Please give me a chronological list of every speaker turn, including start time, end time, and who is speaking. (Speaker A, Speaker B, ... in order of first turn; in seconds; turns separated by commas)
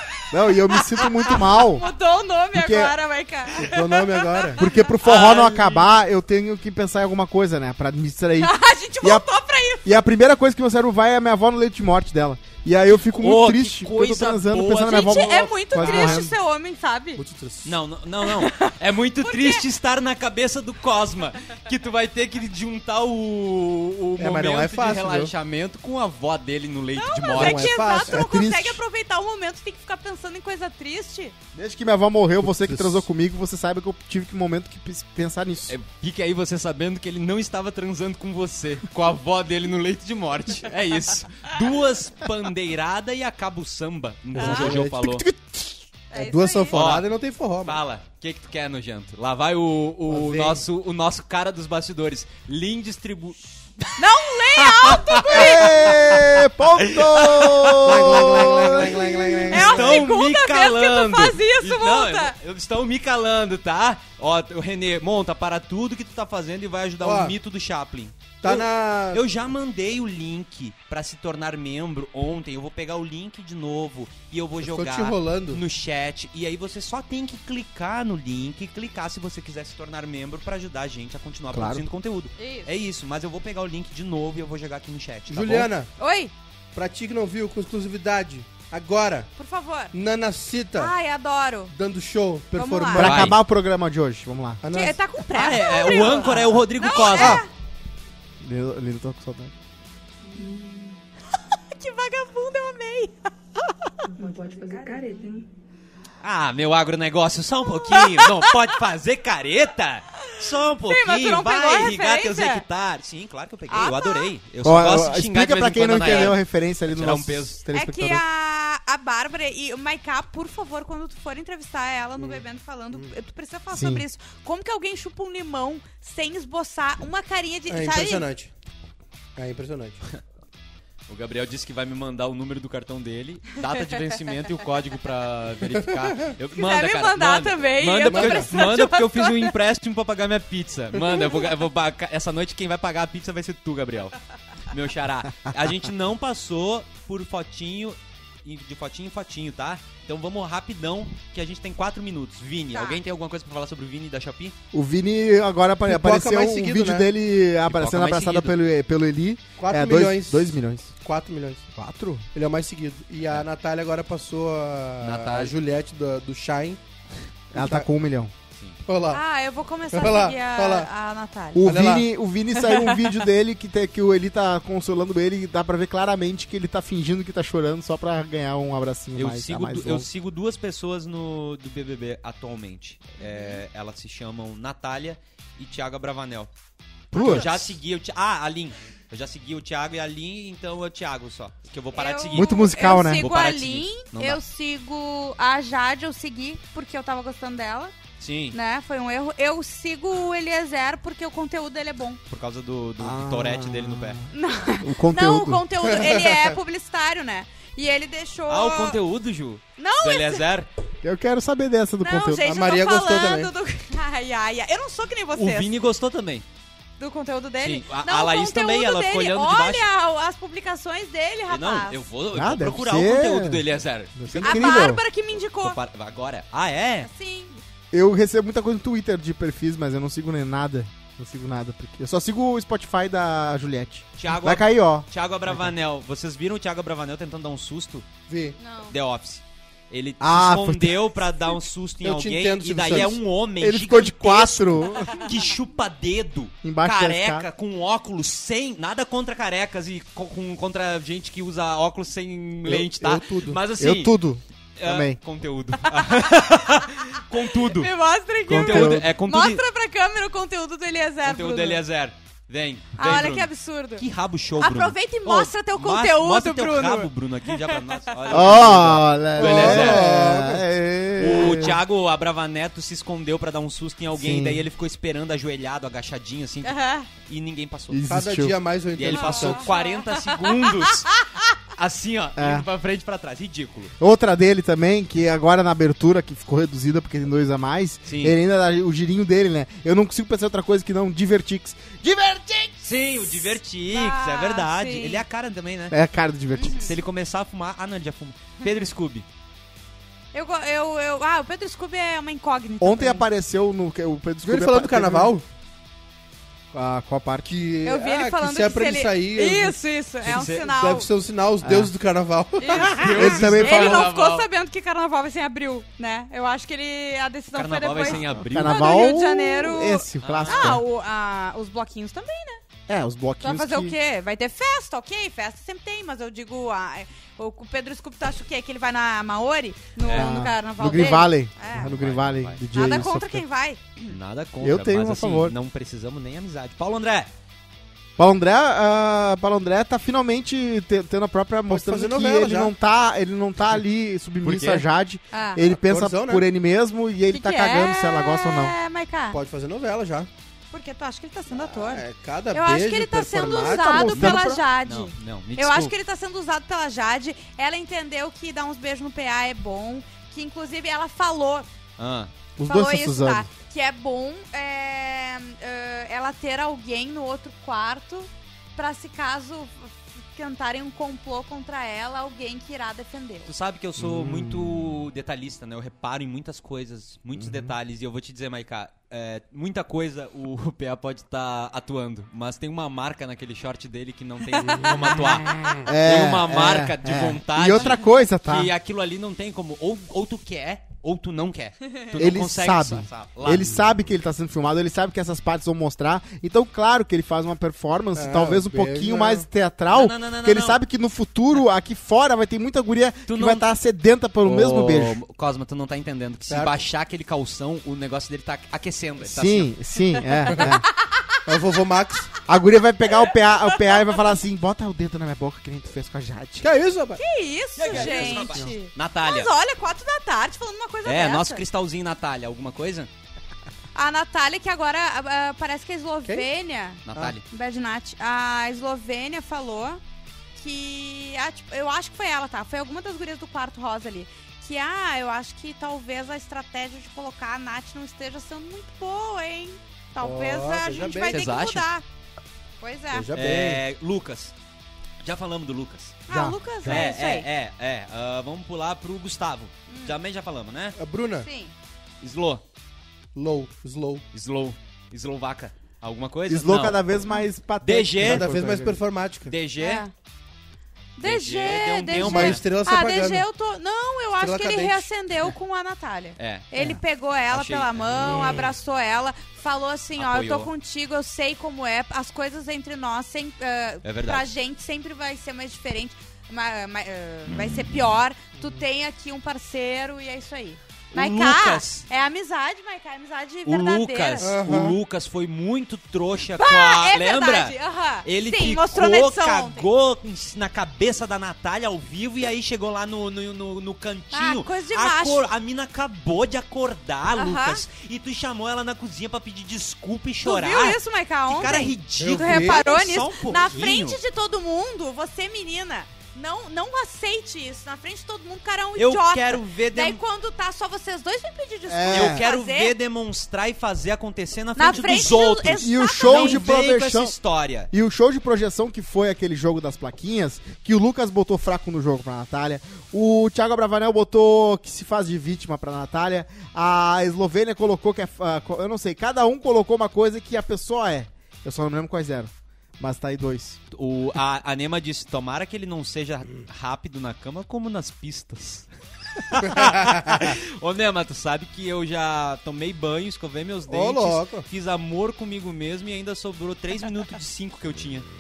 Speaker A: 0.3-1.9, Speaker B: 0.7-4.8, Speaker A: 2.5-3.0, Speaker C: 3.6-4.6, Speaker A: 4.6-9.3, Speaker D: 5.0-5.9, Speaker B: 8.4-9.9, Speaker A: 9.8-16.4, Speaker D: 12.9-16.2, Speaker B: 14.9-17.2, Speaker C: 17.2-17.8, Speaker D: 17.6-27.9, Speaker B: 18.2-19.6, Speaker C: 24.2-25.3, Speaker B: 27.0-31.4, Speaker C: 27.3-28.2, Speaker A: 28.1-28.8, Speaker A: 31.5-35.8, Speaker C: 32.4-33.1, Speaker D: 35.7-45.2, Speaker C: 44.3-45.1, Speaker A: 44.4-45.8, Speaker B: 46.1-46.8, Speaker C: 46.1-47.8, Speaker D: 46.7-47.1, Speaker D: 47.6-54.0, Speaker C: 50.1-50.6, Speaker B: 54.0-55.8, Speaker D: 54.6-85.7, Speaker A: 55.3-59.5, Speaker C: 57.8-60.0, Speaker B: 59.5-62.3, Speaker C: 67.0-67.3, Speaker C: 68.4-69.2, Speaker C: 74.6-75.6, Speaker A: 81.5-81.8, Speaker B: 82.4-82.7, Speaker C: 85.3-85.9, Speaker B: 86.0-86.3, Speaker C: 86.7-89.3, Speaker B: 89.4-89.9, Speaker C: 89.9-90.9, Speaker B: 90.8-91.7, Speaker C: 91.7-93.3, Speaker B: 92.5-93.1, Speaker A: 92.9-94.6, Speaker D: 93.0-93.4, Speaker C: 94.6-95.0, Speaker B: 94.7-97.5, Speaker D: 95.3-97.4, Speaker C: 96.2-96.6, Speaker C: 97.1-97.5, Speaker A: 98.4-99.5, Speaker E: 100.3-101.0, Speaker B: 101.5-103.3, Speaker E: 104.1-105.5, Speaker D: 106.2-117.6, Speaker B: 107.7-108.5, Speaker B: 110.9-112.7, Speaker B: 113.7-114.3, Speaker A: 114.6-118.2, Speaker B: 117.7-128.3, Speaker C: 122.2-123.1, Speaker A: 123.7-124.0, Speaker C: 127.7-128.5, Speaker C: 129.4-130.0, Speaker D: 131.1-144.2, Speaker B: 136.6-139.5, Speaker C: 138.1-138.5, Speaker D: 144.7-154.6, Speaker B: 152.7-153.0, Speaker A: 154.7-160.9, Speaker C: 155.9-157.1, Speaker D: 157.7-158.6, Speaker C: 159.6-161.7, Speaker A: 161.8-162.3, Speaker C: 162.3-166.8, Speaker D: 165.0-165.5, Speaker C: 167.5-167.9, Speaker A: 167.5-168.3, Speaker D: 168.5-168.8, Speaker C: 168.9-169.2, Speaker B: 169.1-171.7, Speaker C: 169.9-170.9, Speaker A: 171.6-180.1, Speaker C: 171.6-172.1, Speaker B: 172.6-173.1, Speaker D: 179.2-186.5, Speaker B: 183.2-183.6, Speaker A: 187.1-187.8, Speaker D: 187.1-194.4, Speaker B: 191.9-198.0, Speaker A: 192.3-193.3, Speaker D: 198.2-198.6, Speaker B: 198.5-202.2, Speaker D: 202.3-204.2, Speaker A: 203.0-205.7, Speaker B: 204.3-209.0, Speaker C: 205.8-206.6, Speaker D: 208.5-210.7, Speaker B: 209.8-210.4, Speaker A: 211.0-212.6, Speaker B: 212.0-215.7, Speaker C: 212.4-213.5, Speaker D: 215.3-216.5, Speaker B: 217.0-222.0, Speaker D: 217.6-219.9, Speaker D: 221.5-224.9, Speaker A: 222.3-223.6, Speaker A: 224.2-225.0, Speaker B: 224.4-225.8, Speaker D: 225.6-227.1, Speaker B: 227.0-227.6, Speaker A: 227.9-235.1, Speaker D: 234.2-238.1, Speaker C: 238.3-238.6, Speaker B: 238.6-238.9, Speaker D: 238.9-254.2, Speaker A: 240.2-241.2, Speaker C: 242.0-243.2, Speaker A: 243.6-245.2, Speaker A: 246.6-247.5, Speaker C: 252.7-253.6, Speaker A: 253.8-255.2, Speaker D: 254.8-257.9, Speaker B: 256.0-256.5, Speaker B: 257.6-261.8, Speaker A: 258.5-259.1, Speaker D: 258.5-259.6, Speaker D: 261.2-270.1, Speaker B: 263.0-264.0, Speaker B: 264.6-268.4, Speaker A: 268.3-271.8, Speaker C: 269.4-270.7, Speaker D: 271.2-278.0, Speaker A: 274.1-274.7, Speaker B: 276.6-277.1, Speaker A: 277.9-278.6, Speaker C: 278.1-279.6, Speaker D: 278.9-283.9, Speaker B: 279.1-280.9, Speaker A: 282.4-282.7, Speaker A: 284.0-292.8, Speaker D: 288.1-288.4, Speaker D: 292.8-296.0, Speaker B: 293.2-295.2, Speaker A: 295.9-296.9, Speaker B: 296.6-296.9, Speaker D: 296.9-299.3, Speaker B: 300.3-303.2, Speaker A: 302.8-305.3, Speaker C: 304.4-305.4, Speaker A: 306.7-307.5, Speaker C: 307.5-313.4, Speaker B: 307.8-311.1, Speaker D: 310.2-310.7, Speaker A: 311.6-311.9, Speaker B: 312.6-322.6, Speaker D: 312.7-314.5, Speaker A: 313.2-314.1, Speaker D: 317.5-319.0, Speaker A: 318.5-320.8, Speaker D: 320.2-320.8, Speaker A: 322.9-324.0, Speaker B: 323.4-331.9, Speaker D: 330.0-330.3, Speaker A: 330.1-333.4, Speaker D: 331.7-332.6, Speaker B: 332.7-334.1, Speaker D: 334.1-337.3, Speaker A: 334.6-335.6, Speaker A: 338.2-348.7, Speaker C: 341.7-342.7, Speaker D: 344.4-344.9, Speaker B: 345.3-345.6, Speaker C: 345.6-346.4, Speaker B: 347.3-349.4, Speaker C: 349.3-350.3, Speaker B: 350.7-361.7, Speaker C: 351.5-354.4, Speaker A: 353.6-354.6, Speaker D: 354.3-355.9, Speaker D: 362.0-362.3, Speaker A: 362.6-363.5, Speaker B: 362.6-373.5, Speaker D: 373.5-393.8, Speaker A: 374.0-374.7, Speaker A: 377.4-377.7, Speaker B: 384.6-385.8, Speaker A: 385.7-388.7, Speaker A: 392.2-405.2, Speaker C: 398.1-399.5, Speaker D: 399.9-400.8, Speaker D: 403.3-403.7, Speaker D: 404.4-409.7, Speaker C: 406.5-406.8, Speaker A: 409.2-410.9, Speaker B: 410.6-411.4, Speaker C: 411.5-412.3, Speaker A: 412.5-416.7, Speaker B: 413.1-414.2, Speaker C: 416.6-417.2, Speaker B: 417.2-421.6, Speaker D: 417.8-419.5, Speaker C: 417.9-418.7, Speaker D: 421.1-423.1, Speaker B: 423.9-430.0, Speaker D: 427.1-427.4, Speaker B: 430.6-442.1, Speaker C: 440.2-441.4, Speaker D: 441.0-441.9, Speaker B: 442.8-443.3, Speaker C: 443.1-443.8, Speaker D: 443.3-444.5, Speaker D: 445.2-446.2, Speaker B: 446.3-447.5, Speaker A: 446.3-447.0, Speaker D: 446.8-451.0, Speaker B: 449.9-450.1, Speaker C: 451.0-451.5, Speaker B: 451.4-451.7, Speaker D: 452.2-452.6, Speaker C: 453.3-454.2, Speaker D: 454.3-457.2, Speaker A: 456.5-459.0, Speaker D: 457.8-458.4, Speaker C: 458.2-459.5, Speaker D: 459.5-460.1, Speaker B: 459.8-460.1, Speaker B: 461.2-484.5, Speaker D: 461.2-462.6, Speaker C: 462.2-463.5, Speaker C: 464.4-465.1, Speaker D: 466.4-466.7, Speaker D: 467.5-468.7, Speaker D: 470.2-470.7, Speaker D: 474.0-474.5, Speaker D: 481.1-482.1, Speaker D: 483.7-504.2, Speaker C: 484.4-485.0, Speaker B: 486.6-489.9, Speaker B: 494.3-495.5, Speaker B: 497.4-497.9, Speaker B: 500.4-513.0, Speaker C: 502.2-502.8, Speaker D: 509.0-510.2, Speaker A: 511.9-512.4, Speaker D: 512.1-517.9, Speaker B: 514.8-516.6, Speaker A: 515.8-517.4, Speaker A: 517.9-533.8, Speaker D: 533.9-548.3, Speaker C: 543.9-544.7